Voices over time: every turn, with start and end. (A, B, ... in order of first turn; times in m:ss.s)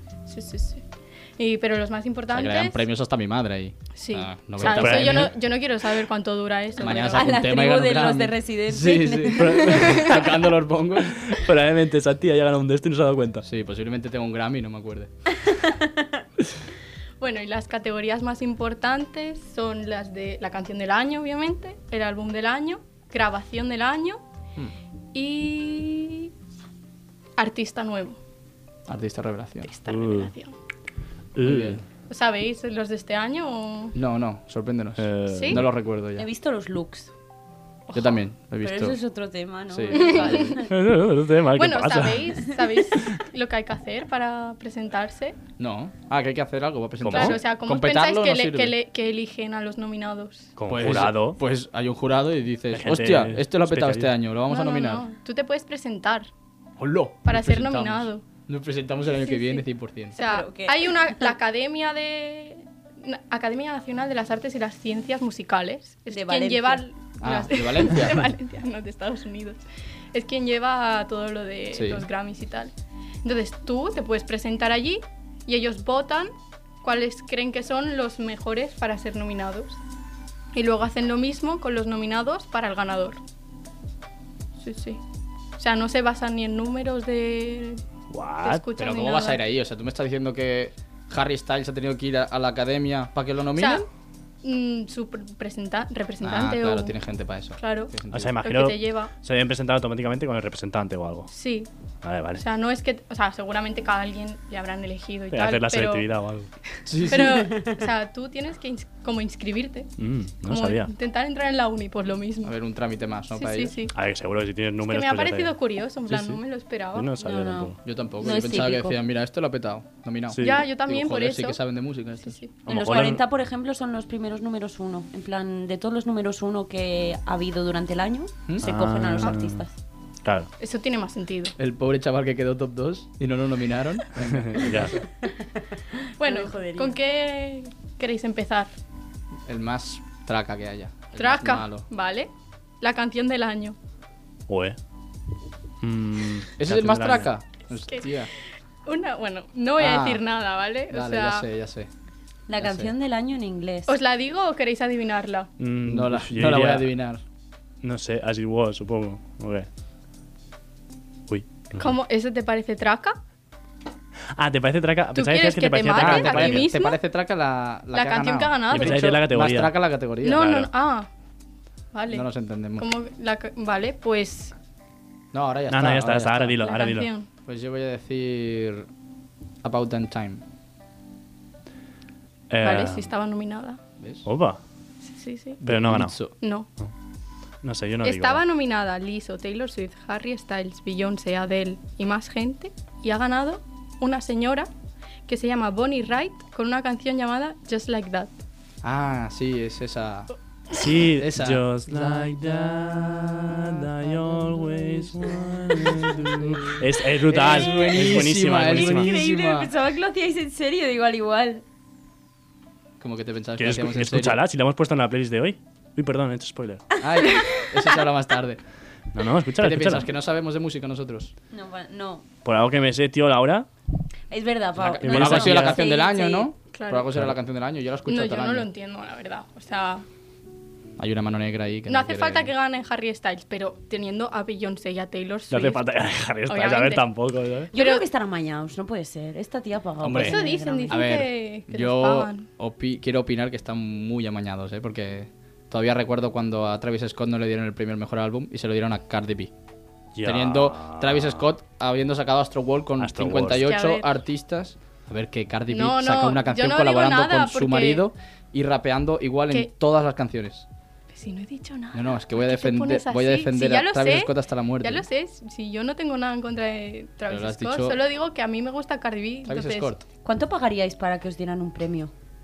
0:00.2-0:00.8 A
0:01.4-0:02.8 A
0:02.3-0:05.3 B
0:04.0-0:07.4 A
0:04.6-0:05.3 C
0:06.8-0:11.3 B
0:07.0-0:09.8 D
0:09.6-0:10.2 A
0:09.7-0:10.2 C
0:11.1-0:13.4 C
0:13.4-0:15.1 B
0:15.4-0:16.1 D
0:17.2-0:24.2 A
0:25.1-0:26.3 A
0:27.4-0:28.2 A
0:28.9-0:29.7 B
0:29.6-0:30.5 A
0:29.9-0:30.3 C
0:31.3-0:31.8 C
0:31.4-0:31.8 B
0:32.1-0:34.0 A
0:33.9-0:36.2 B
0:35.0-0:35.6 C
0:35.3-0:35.6 A
0:36.2-0:37.1 D
0:37.9-0:38.2 A
0:37.9-0:39.0 B
0:38.6-0:40.7 D
0:39.7-0:40.5 B
0:39.9-0:40.6 A
0:40.6-0:42.5 C
0:41.6-0:45.4 A
0:45.6-0:48.7 B
0:47.0-0:47.4 C
0:47.1-0:50.5 A
0:50.6-0:51.4 C
0:50.7-0:55.0 B
0:52.7-0:54.1 C
0:54.5-0:56.3 A
0:56.8-1:00.2 B
0:57.2-0:58.2 A
0:59.3-0:59.6 A
1:00.1-1:09.6 A
1:00.2-1:01.3 D
1:06.1-1:06.8 D
1:07.2-1:08.2 B
1:10.1-1:12.7 A
1:11.7-1:12.1 B
1:13.2-1:19.8 A
1:20.5-1:23.2 A
1:24.6-1:25.0 A
1:25.6-1:27.8 A
1:28.1-1:28.6 C
1:28.4-1:29.4 A
1:28.8-1:33.9 B
1:33.6-1:33.9 A
1:34.4-1:36.9 A
1:36.2-1:38.4 B
1:37.6-1:39.1 A
1:38.1-1:41.3 C
1:41.3-1:41.7 A
1:42.0-1:42.4 C
1:42.4-1:46.1 A
1:45.3-1:46.5 C
1:46.9-1:47.5 B
1:47.0-1:49.9 A
1:50.0-1:50.9 C
1:50.4-1:52.5 A
1:52.4-1:53.8 B
1:53.3-1:53.9 A
1:53.9-1:55.5 C
1:54.8-1:57.1 A
1:56.0-1:56.4 C
1:56.9-1:57.8 C
1:57.2-1:59.0 D
1:57.8-2:02.3 B
2:00.3-2:00.6 C
2:00.4-2:01.6 A
2:02.2-2:02.5 A
2:02.6-2:03.2 C
2:02.6-2:09.7 D
2:08.6-2:09.6 C
2:10.2-2:10.5 C
2:10.6-2:11.5 A
2:11.6-2:15.1 B
2:14.2-2:14.9 C
2:15.2-2:17.0 D
2:16.2-2:18.7 A
2:19.5-2:21.8 B
2:21.2-2:22.3 A
2:22.8-2:23.8 A
2:24.5-2:24.8 C
2:25.8-2:27.3 C
2:26.6-2:28.3 B
2:28.8-2:31.4 A
2:29.8-2:30.2 B
2:30.9-2:31.9 B
2:32.5-2:33.9 D
2:32.6-2:32.9 B
2:33.9-2:35.5 A
2:35.6-2:36.9 C
2:35.8-2:37.2 B
2:37.8-2:39.7 C
2:41.3-2:41.9 C
2:41.8-2:43.2 A
2:44.3-2:46.6 C
2:45.1-2:47.0 A
2:45.9-2:50.4 B
2:47.9-2:49.2 A
2:48.7-2:50.7 C
2:50.2-2:51.1 A
2:51.9-2:52.2 A
2:52.1-2:52.9 B
2:52.8-2:54.5 A
2:55.3-2:56.6 B
2:55.7-2:57.1 C
2:56.6-2:57.3 A
2:57.4-2:58.9 B
2:59.6-3:00.4 B
3:02.5-3:03.1 C
3:02.6-3:03.8 A
3:04.0-3:04.2 B
3:04.2-3:04.6 C
3:05.1-3:05.6 A
3:05.6-3:06.4 B
3:05.6-3:06.1 C
3:06.4-3:06.7 A
3:07.6-3:08.4 C
3:08.0-3:14.7 A
3:15.3-3:18.3 A
3:18.8-3:20.3 B
3:20.7-3:29.1 C
3:21.2-3:22.1 B
3:26.1-3:26.7 B
3:27.2-3:29.7 B
3:28.7-3:31.6 D
3:33.0-3:34.4 B
3:33.6-3:36.9 C
3:37.0-3:38.6 B
3:37.1-3:37.7 D
3:39.1-3:40.1 C
3:39.6-3:41.3 B
3:41.5-3:42.2 D
3:42.4-3:43.7 C
3:44.3-3:46.5 D
3:44.8-3:48.7 B
3:45.0-3:45.8 C
3:46.7-3:47.1 A
3:48.1-3:50.0 A
3:51.0-3:52.5 B
3:51.9-3:55.8 A
3:55.5-3:57.7 C
3:56.5-3:57.0 A
3:57.7-3:58.0 A
3:57.7-4:01.1 D
4:00.0-4:09.5 B
4:00.2-4:02.4 A
4:10.1-4:11.4 C
4:10.2-4:20.7 B
4:13.0-4:13.6 C
4:13.5-4:14.1 A
4:15.7-4:18.0 A
4:21.1-4:29.9 A
4:21.9-4:25.0 B
4:27.3-4:28.0 B
4:29.5-4:30.0 B
4:30.2-4:32.1 D